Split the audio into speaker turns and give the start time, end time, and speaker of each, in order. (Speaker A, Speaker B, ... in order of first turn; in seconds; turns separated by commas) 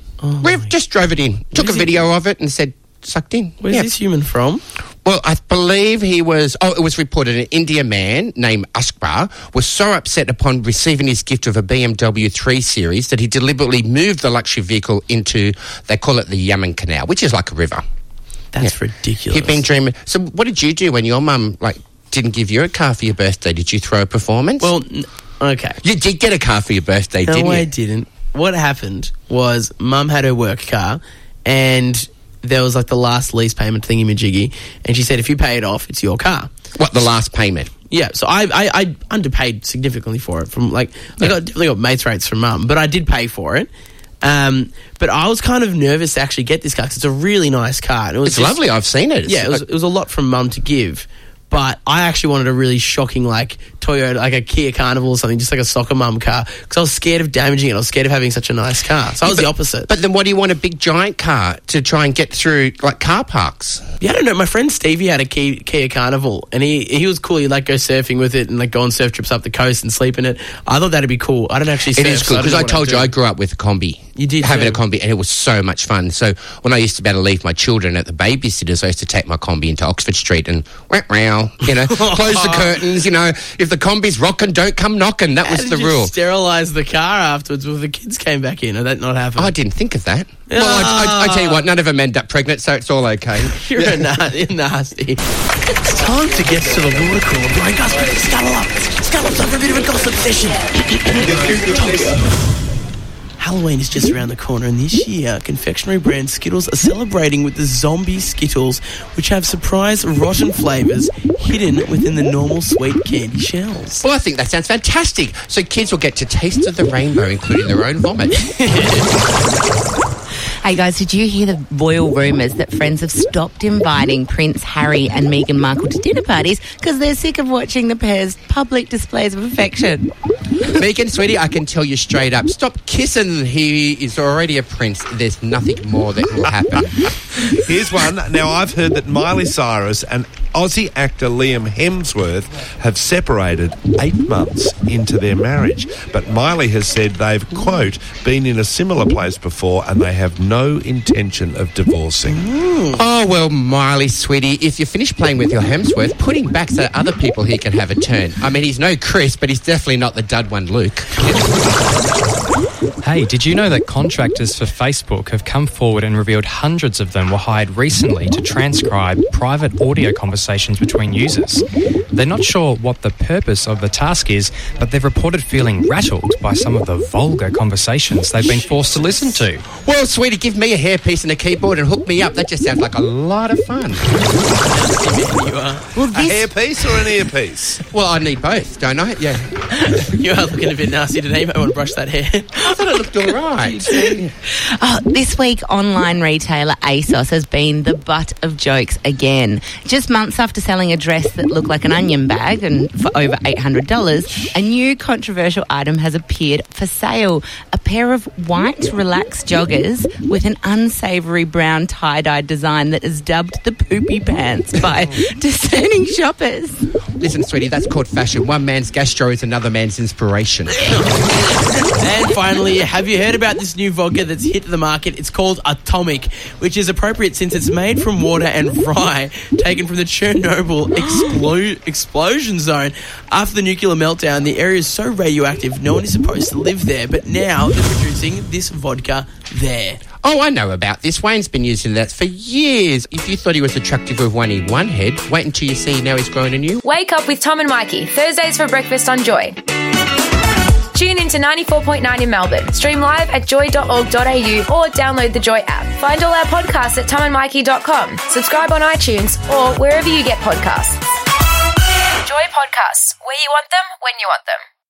Speaker A: 0.2-0.7, Speaker B: 0.4-3.9, Speaker A: 1.5-2.1, Speaker A: 3.6-4.6, Speaker B: 5.0-17.8, Speaker A: 18.5-19.6, Speaker B: 19.3-24.7, Speaker A: 24.6-25.8, Speaker B: 25.8-27.7, Speaker A: 27.3-36.5, Speaker B: 36.8-37.7, Speaker A: 37.9-43.7, Speaker A: 44.2-48.6, Speaker B: 48.2-49.6, Speaker A: 49.2-59.9, Speaker B: 59.2-63.8, Speaker A: 64.0-73.1, Speaker B: 72.0-86.1, Speaker A: 74.2-74.8, Speaker A: 82.1-82.7, Speaker A: 85.4-89.5, Speaker B: 89.4-94.1, Speaker A: 90.5-91.6, Speaker A: 93.5-95.2, Speaker A: 95.8-102.2, Speaker A: 103.4-114.0, Speaker B: 114.0-118.4, Speaker A: 118.5-119.1, Speaker C: 120.6-130.1, Speaker B: 130.8-136.9, Speaker D: 137.6-152.4, Speaker A: 152.3-153.0, Speaker B: 152.9-161.1, Speaker E: 163.0-179.6, Speaker A: 178.4-179.4, Speaker B: 179.7-184.1, Speaker A: 184.6-185.9, Speaker C: 186.0-186.5, Speaker D: 186.1-187.8, Speaker B: 187.9-189.5, Speaker A: 190.1-193.0, Speaker B: 192.7-194.3, Speaker C: 194.5-216.8, Speaker B: 217.2-220.8, Speaker A: 221.9-240.0, Speaker B: 240.2-246.8, Speaker F: 246.8-249.6, Speaker F: 250.9-261.0, Speaker F: 262.2-264.6